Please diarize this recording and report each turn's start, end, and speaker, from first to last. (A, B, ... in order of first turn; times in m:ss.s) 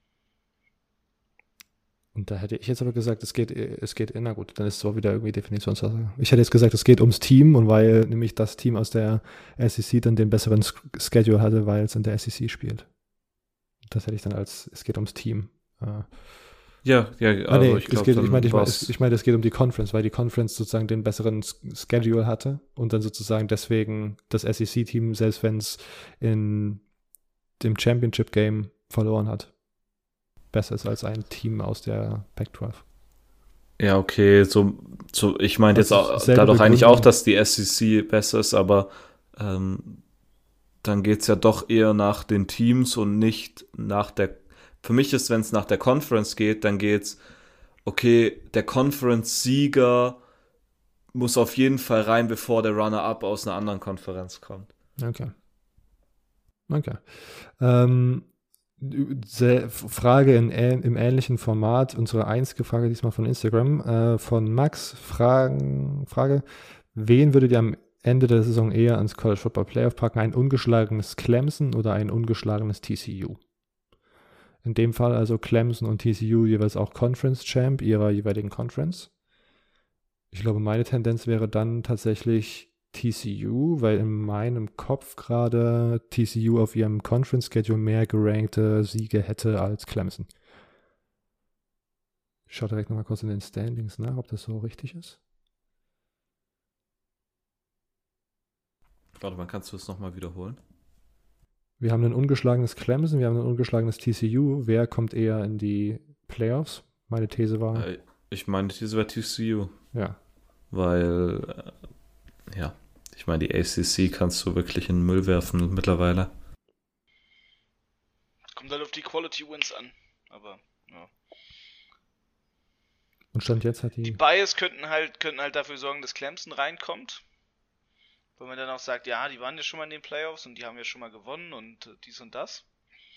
0:02.2-0:12.9 A
0:13.9-0:16.1 A
0:16.8-0:18.9 B
0:17.5-0:26.8 A
0:27.6-0:29.5 A
0:30.5-0:32.8 A
0:33.8-0:40.0 B
0:35.7-0:37.1 A
0:40.8-0:47.2 B
0:47.8-0:50.2 B
0:51.1-0:54.7 B
0:55.0-0:55.3 A
0:56.7-1:13.4 A
1:14.6-1:19.1 A
1:20.3-1:30.3 A
1:32.5-1:35.2 A
1:39.2-1:40.6 B
1:41.8-1:47.9 A
1:47.7-1:49.8 B
1:50.7-1:51.7 B
1:52.5-1:56.3 B
1:58.6-2:01.1 C
2:03.3-2:04.2 A
2:04.0-2:07.2 C
2:08.4-2:12.6 C